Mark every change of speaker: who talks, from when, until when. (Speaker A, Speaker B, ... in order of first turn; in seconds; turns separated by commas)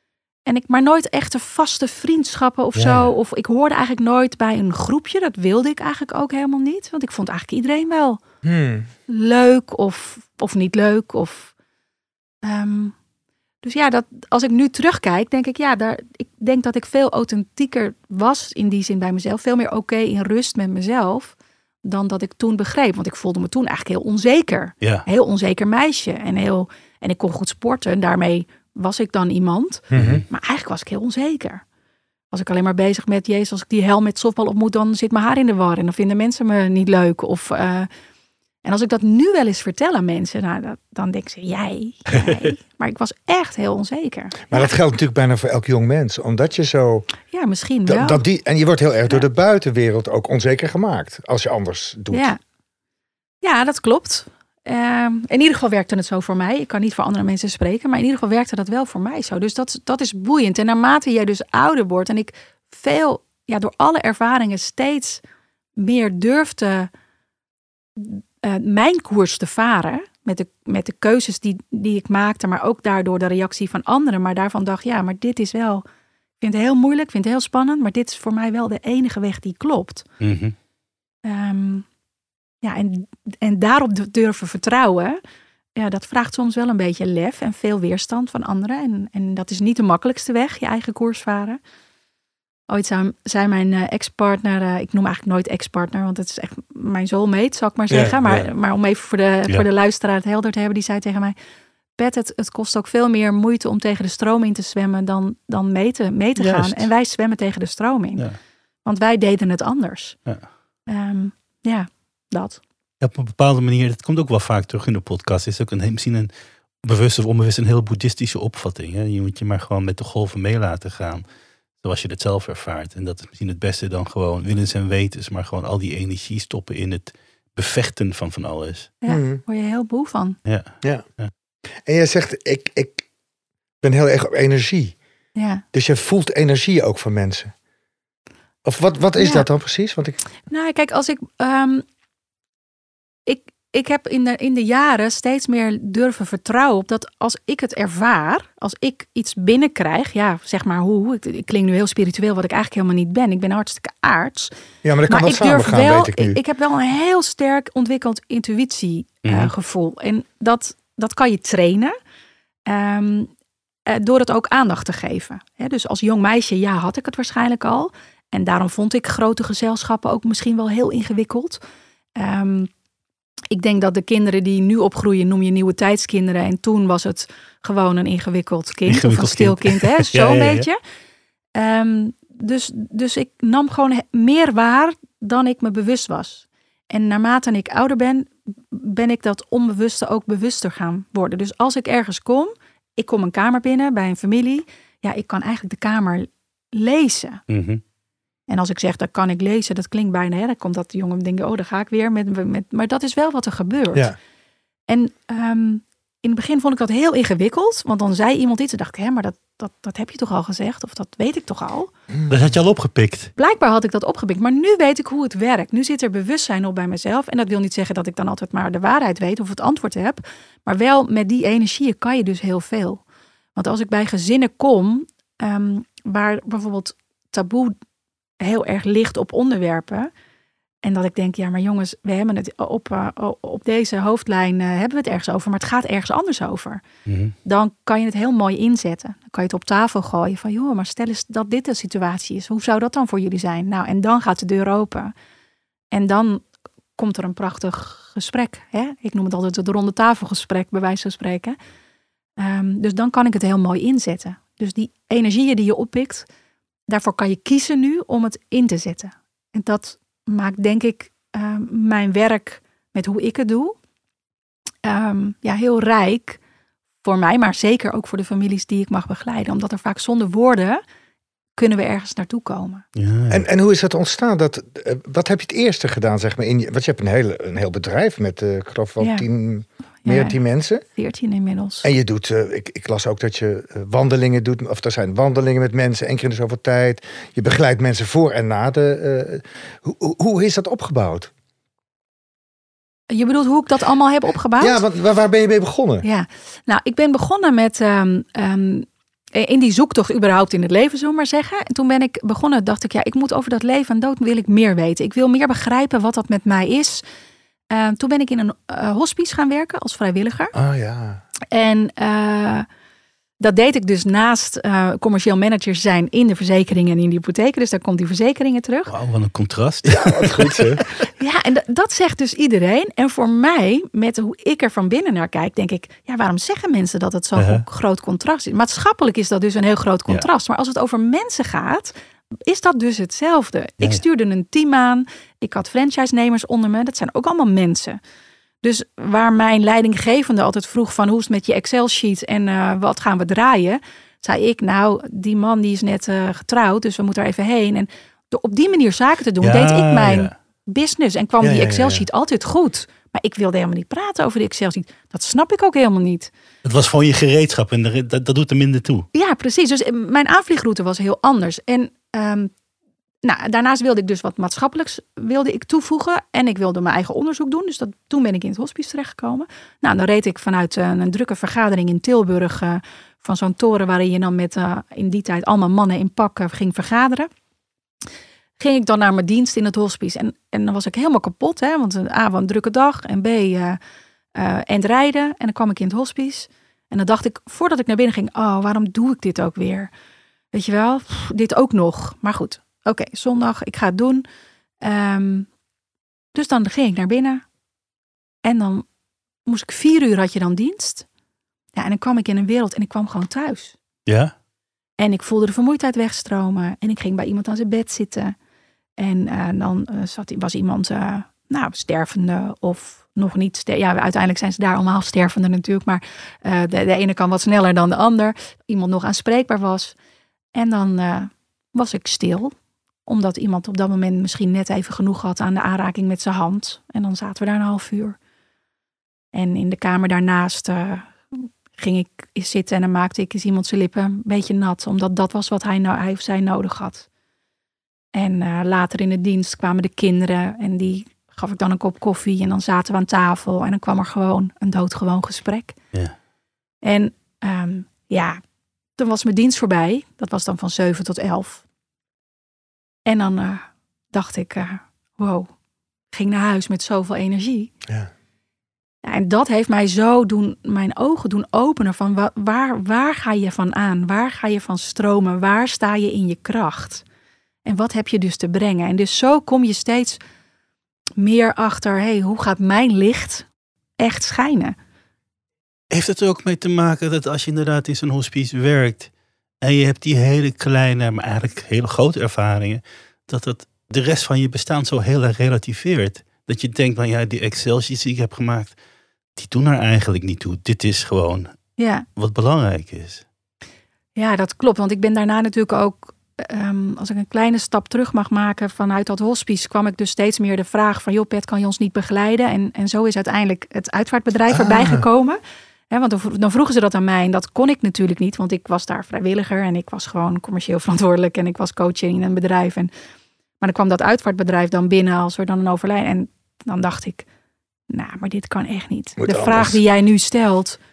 Speaker A: 0.5-8.2, Speaker B: 2.8-3.1, Speaker C: 8.4-8.9, Speaker A: 9.1-11.5, Speaker A: 12.4-12.9, Speaker A: 13.6-31.6, Speaker C: 29.9-30.2, Speaker B: 29.9-30.2, Speaker A: 32.3-37.9, Speaker A: 38.6-44.7, Speaker C: 44.5-47.1, Speaker A: 47.3-48.2, Speaker C: 47.9-52.3, Speaker A: 52.1-52.4, Speaker A: 53.4-65.2, Speaker A: 65.8-66.9, Speaker A: 68.0-75.8, Speaker A: 76.4-80.0, Speaker B: 80.2-80.5, Speaker A: 81.2-81.9, Speaker A: 82.6-85.2, Speaker A: 85.8-91.6, Speaker A: 92.7-101.3, Speaker C: 97.9-98.4, Speaker A: 102.0-108.3, Speaker B: 106.4-106.9, Speaker A: 108.8-110.2, Speaker A: 110.9-112.6, Speaker B: 113.0-116.3, Speaker B: 116.8-121.2, Speaker B: 121.8-128.9, Speaker A: 129.0-130.4, Speaker C: 129.1-129.4, Speaker B: 130.5-131.3, Speaker C: 131.8-133.1, Speaker C: 133.8-135.0, Speaker A: 135.4-135.6, Speaker C: 135.7-137.5, Speaker C: 138.7-140.2, Speaker A: 139.2-139.4, Speaker A: 140.5-141.8, Speaker A: 143.3-154.5, Speaker C: 154.8-156.4, Speaker A: 155.1-161.9, Speaker B: 159.2-159.5, Speaker A: 162.7-163.3, Speaker A: 163.9-171.6, Speaker A: 172.2-172.7, Speaker A: 173.5-180.8, Speaker B: 178.9-180.7, Speaker A: 181.6-197.4, Speaker B: 197.5-197.8, Speaker A: 198.5-204.1, Speaker A: 204.9-211.9, Speaker B: 212.3-213.3, Speaker A: 213.4-223.0, Speaker A: 223.6-227.8, Speaker A: 228.4-230.1, Speaker A: 230.8-236.8, Speaker B: 237.1-237.3, Speaker A: 237.4-245.1, Speaker A: 245.9-251.6, Speaker A: 252.4-256.3, Speaker A: 256.9-263.8, Speaker A: 264.8-266.4, Speaker A: 267.0-270.8, Speaker A: 271.6-272.8, Speaker B: 273.0-273.4, Speaker C: 273.3-280.8, Speaker A: 280.0-280.4, Speaker A: 280.9-281.9, Speaker C: 281.8-291.3, Speaker A: 293.1-294.8, Speaker C: 294.6-296.1, Speaker A: 296.0-307.0, Speaker A: 307.7-310.6, Speaker C: 310.6-311.2, Speaker A: 311.5-312.7, Speaker A: 313.4-318.9, Speaker B: 318.9-320.8, Speaker C: 319.9-320.9, Speaker A: 321.2-331.9, Speaker B: 327.4-327.6, Speaker A: 332.5-338.0, Speaker A: 338.6-356.3, Speaker B: 349.4-350.3, Speaker C: 351.4-352.1, Speaker B: 356.6-359.1, Speaker A: 359.1-362.5, Speaker A: 363.2-377.3, Speaker A: 378.6-383.8, Speaker A: 384.4-389.9, Speaker A: 390.5-394.2, Speaker A: 394.8-395.5, Speaker A: 396.3-397.4, Speaker A: 398.4-398.9, Speaker A: 399.5-401.1, Speaker A: 401.8-403.8, Speaker B: 404.1-404.3, Speaker A: 405.0-408.4, Speaker A: 409.0-419.9, Speaker A: 420.6-422.5, Speaker A: 423.1-428.2, Speaker A: 429.3-437.1, Speaker A: 438.1-445.8, Speaker A: 446.8-448.4, Speaker A: 449.0-451.6, Speaker A: 453.1-455.5, Speaker A: 456.1-457.7, Speaker A: 459.0-467.0, Speaker A: 467.6-470.2, Speaker A: 471.2-473.5, Speaker A: 474.0-474.8, Speaker B: 475.9-479.1, Speaker B: 479.6-488.8, Speaker B: 489.4-491.5, Speaker A: 491.8-492.1, Speaker B: 492.2-493.2, Speaker A: 494.2-505.4, Speaker C: 504.5-505.0, Speaker A: 505.9-512.9, Speaker A: 513.6-517.3, Speaker A: 517.9-520.8, Speaker C: 519.2-519.8